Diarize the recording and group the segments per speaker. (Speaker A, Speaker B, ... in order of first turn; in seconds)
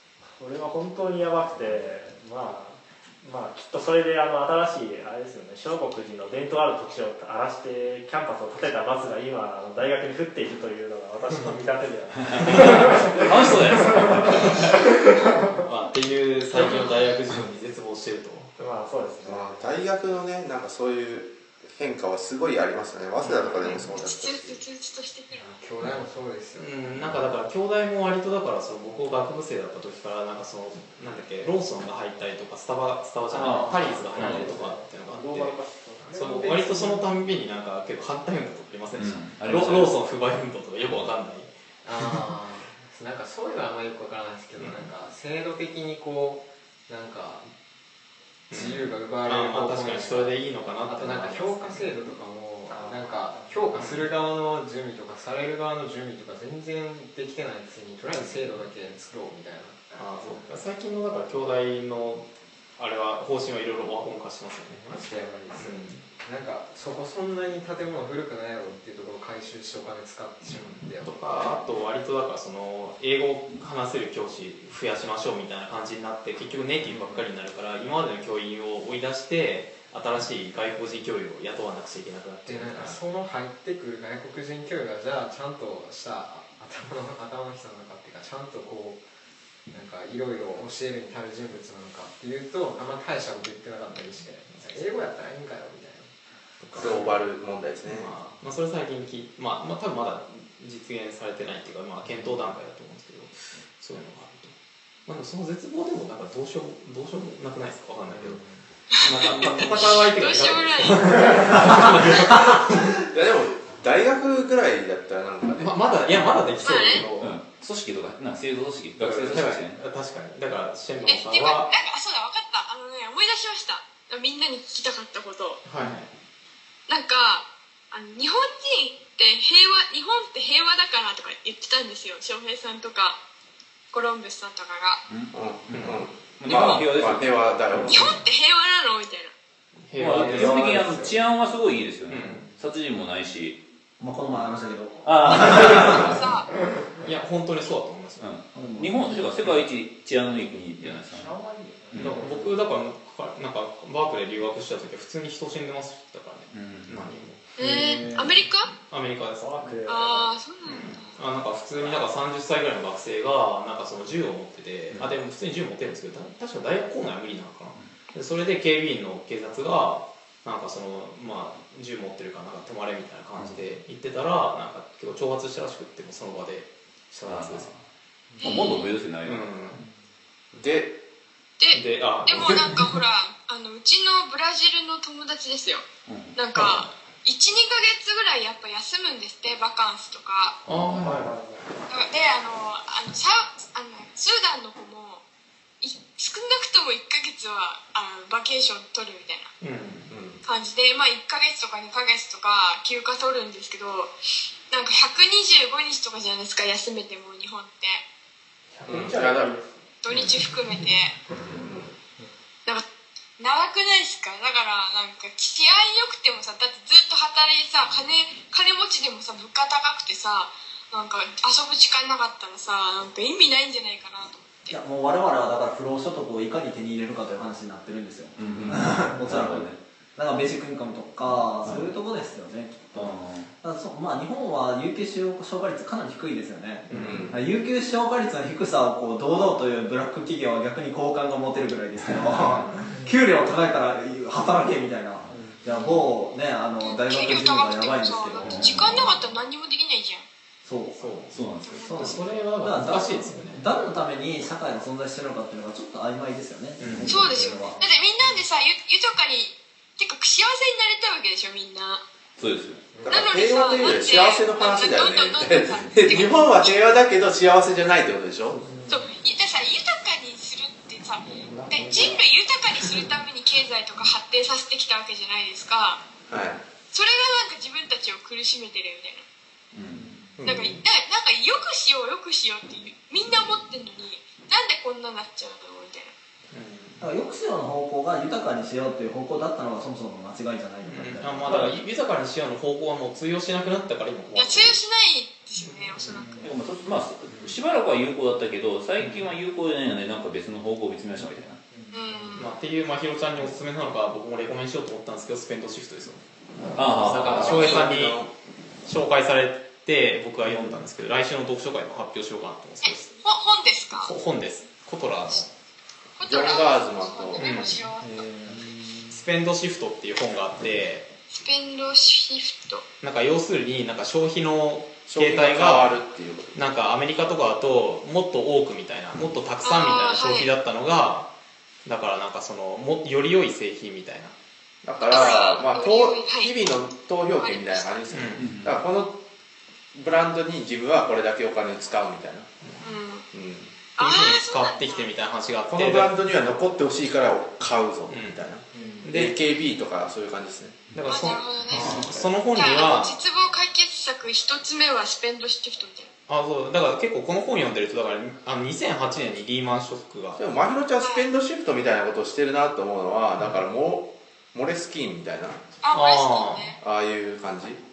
Speaker A: 0.4-15.5, 18.6-19.7, 33.3-37.0, 159.4-160.3, 191.0-191.8, 208.8-209.6, 268.5-268.9, 271.3-272.2
Speaker B: 12.3-14.7, 33.3-34.5, 38.9-39.9, 117.2-119.8, 135.1-138.2, 140.0-143.6, 145.0-146.1, 148.2-151.3, 151.9-152.2, 156.5-157.0, 164.9-165.2, 177.2-177.8, 178.4-179.7, 186.1-186.4, 190.7-191.2, 210.1-210.4, 228.4-229.8, 231.2-231.9, 232.9-233.5, 236.9-237.2, 248.4-249.1, 251.3-252.3, 257.0-257.4, 262.4-262.9, 279.7-280.1, 291.5-291.8, 296.4-301.6, 306.7-307.8, 310.4-310.9, 318.0-319.1, 338.4-338.8, 351.7-352.0
Speaker C: 12.5-12.8, 14.3-14.8, 15.6-18.5, 26.6-35.5, 36.1-41.5, 44.6-44.9, 48.5-51.9, 53.7-54.1, 59.9-62.2, 62.8-64.9, 65.5-66.0, 71.0-83.0, 96.8-97.2, 97.8-104.5, 105.0-108.4, 109.0-112.9, 115.6-117.3, 119.1-121.7, 125.6-126.1, 135.7-136.0, 137.9-138.2, 139.8-141.1, 142.1-142.5, 145.3-146.1, 147.0-148.3, 152.0-157.4, 158.9-159.5, 160.6-177.7, 179.2-179.8, 181.7-182.8, 186.5-186.9, 190.7-191.3, 199.6-200.1, 208.8-209.5, 236.9-237.2, 242.3-242.9, 251.0-251.3, 251.9-253.6, 256.8-257.2, 286.5-287.0, 290.9-294.8, 295.6-296.2, 299.0-299.3, 302.4-306.2, 306.8-308.3, 308.9-313.1, 314.0-315.5, 317.4-317.8, 319.1-321.1, 323.0-326.0, 326.5-331.3, 331.8-334.3, 338.1-338.5, 344.0-346.1, 348.1-348.4, 349.0-349.4, 350.9-353.2, 356.3-360.4, 365.9-366.8
Speaker D: 19.2-24.6, 96.6-98.1, 112.4-115.9, 135.3-138.1, 180.5-181.0, 200.1-200.4, 208.9-209.6, 211.5-211.9, 237.0-237.4, 263.0-268.6, 276.3-276.6, 280.4-280.8, 307.2-308.3, 316.2-317.4, 325.1-326.6, 334.8-339.2, 339.9-342.5, 343.3-343.7, 345.7-350.8, 360.4-365.7, 366.8-367.8
Speaker E: 23.6-25.5, 108.9-112.5, 116.6-117.1, 121.0-125.6, 126.9-133.2, 133.9-135.0, 136.5-136.8, 137.9-139.3, 145.6-146.5, 157.6-158.7, 159.8-161.1, 178.4-178.9, 181.6-190.6, 191.9-195.2, 195.8-199.5, 200.4-204.1, 204.7-208.0, 210.0-211.2, 213.4-224.8, 246.8-250.2, 251.6-252.2, 257.1-262.0, 263.1-266.8, 268.9-276.0, 276.9-279.2, 280.4-286.1, 294.3-296.5, 301.9-302.5, 307.4-307.8, 312.8-314.1, 316.2-318.1, 321.3-322.9, 329.6-330.5, 335.0-336.8, 337.3-338.1, 342.8-343.2, 343.9-345.1, 351.1-356.1, 361.0-361.3, 365.8-366.8
Speaker F: 25.3-27.1, 41.8-47.5, 48.5-59.8, 64.7-71.1, 76.8-77.2, 82.5-89.0, 89.7-96.1, 108.1-108.6, 151.1-152.5, 178.3-178.7, 262.9-263.3, 280.0-280.3, 296.1-296.5, 297.3-297.6, 301.7-302.5, 348.7-349.1
Speaker G: 144.0-146.1, 148.5-149.0, 224.7-249.1, 250.6-257.8, 287.0-291.7